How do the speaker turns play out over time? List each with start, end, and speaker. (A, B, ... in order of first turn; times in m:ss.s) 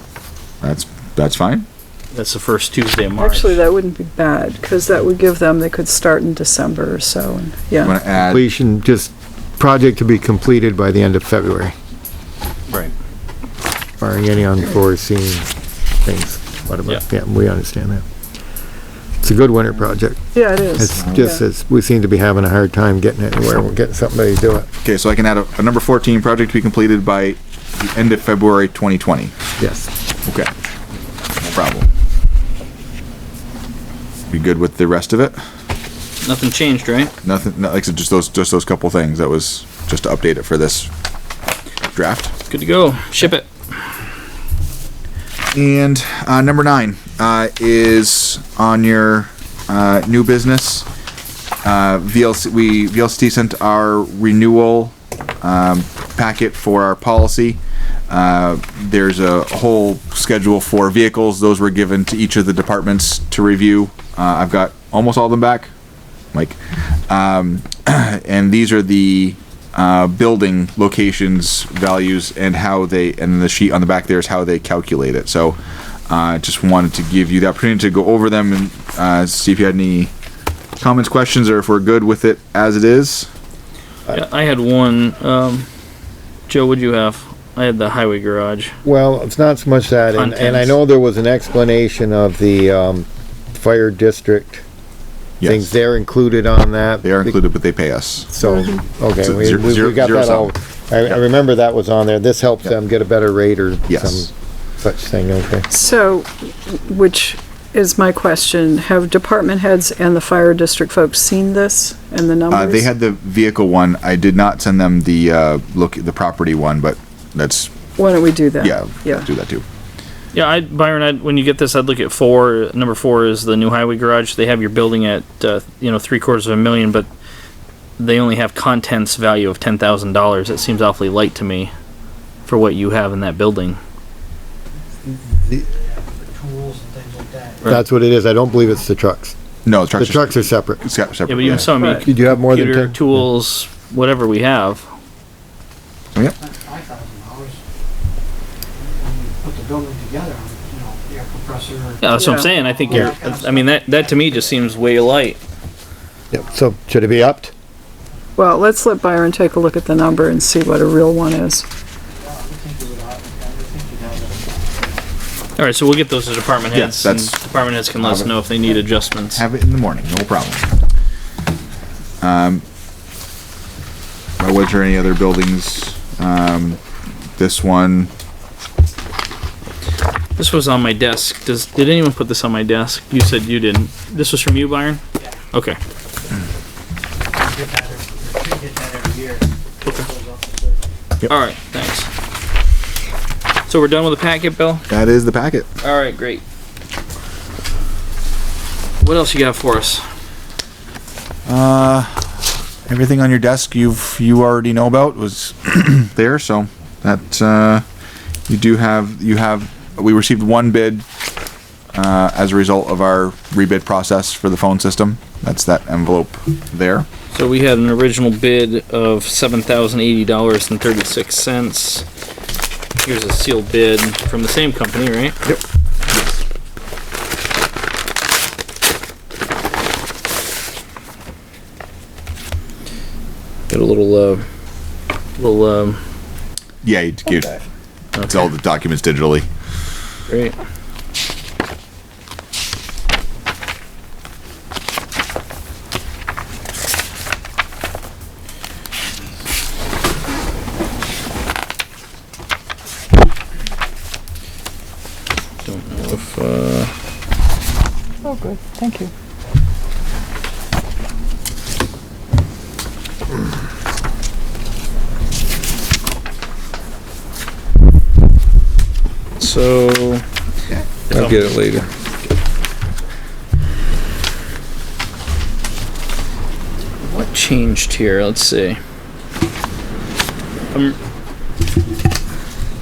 0:00.6-0:01.7 A
0:02.1-0:03.6 B
0:03.2-0:08.0 C
0:07.8-0:08.4 A
0:08.1-0:11.7 D
0:14.0-0:15.5 D
0:16.0-0:18.0 D
0:19.2-0:24.7 D
0:20.3-0:21.4 C
0:24.8-0:29.3 A
0:29.6-0:29.9 D
0:30.2-0:30.5 A
0:31.4-0:31.9 A
0:34.3-0:35.4 A
0:36.2-0:37.1 B
0:37.2-0:40.9 A
0:41.9-0:42.3 A
0:42.5-0:43.8 B
0:45.5-0:50.9 A
0:51.6-1:05.7 A
1:06.3-1:20.1 A
1:20.8-1:23.3 A
1:24.1-1:25.7 B
1:26.5-1:28.7 B
1:28.8-1:34.6 D
1:30.1-1:30.7 B
1:35.4-1:35.7 A
1:35.4-1:37.4 D
1:37.0-1:38.3 A
1:38.3-1:45.7 D
1:38.4-1:38.7 C
1:39.2-1:40.5 A
1:43.9-1:44.3 A
1:45.7-1:52.9 C
1:52.5-1:57.7 A
1:58.0-1:59.3 C
1:58.6-1:59.6 A
2:00.3-2:07.1 B
2:08.0-2:11.7 B
2:12.5-2:13.8 B
2:15.0-2:15.7 D
2:15.9-2:17.6 E
2:17.6-2:19.4 D
2:19.6-2:21.8 A
2:20.0-2:20.8 D
2:21.3-2:24.9 B
2:21.4-2:23.2 D
2:21.8-2:22.0 C
2:26.4-2:27.6 E
2:28.9-2:33.8 E
2:32.0-2:35.4 B
2:32.1-2:32.5 C
2:36.3-2:37.5 D
2:38.4-2:41.7 C
2:42.2-2:44.5 E
2:45.6-2:49.4 B
2:46.7-2:47.4 A
2:48.0-2:48.3 A
2:49.3-2:50.7 A
2:52.2-2:52.6 A
2:54.4-2:56.8 A
2:57.4-2:58.1 A
3:00.4-3:05.0 B
3:05.5-3:05.8 B
3:07.4-3:09.4 E
3:10.1-3:10.7 E
3:11.2-3:12.1 B
3:13.7-3:14.8 B
3:14.9-3:15.7 A
3:15.8-3:16.4 B
3:19.0-3:20.0 B
3:21.4-3:22.3 A
3:22.9-3:27.8 A
3:28.5-3:31.0 A
3:31.9-3:37.1 A
3:37.3-3:42.1 B
3:43.0-3:45.4 B
3:53.7-3:54.4 B
3:55.4-3:56.0 B
3:56.8-3:57.6 A
3:58.2-3:58.5 B
3:58.2-3:59.5 A
4:00.3-4:00.5 B
4:15.6-4:16.9 B
4:18.2-4:19.1 C
4:29.4-4:30.2 B
4:30.9-4:31.9 D
4:31.1-4:31.8 B
4:37.0-4:38.8 B
4:40.7-4:41.0 B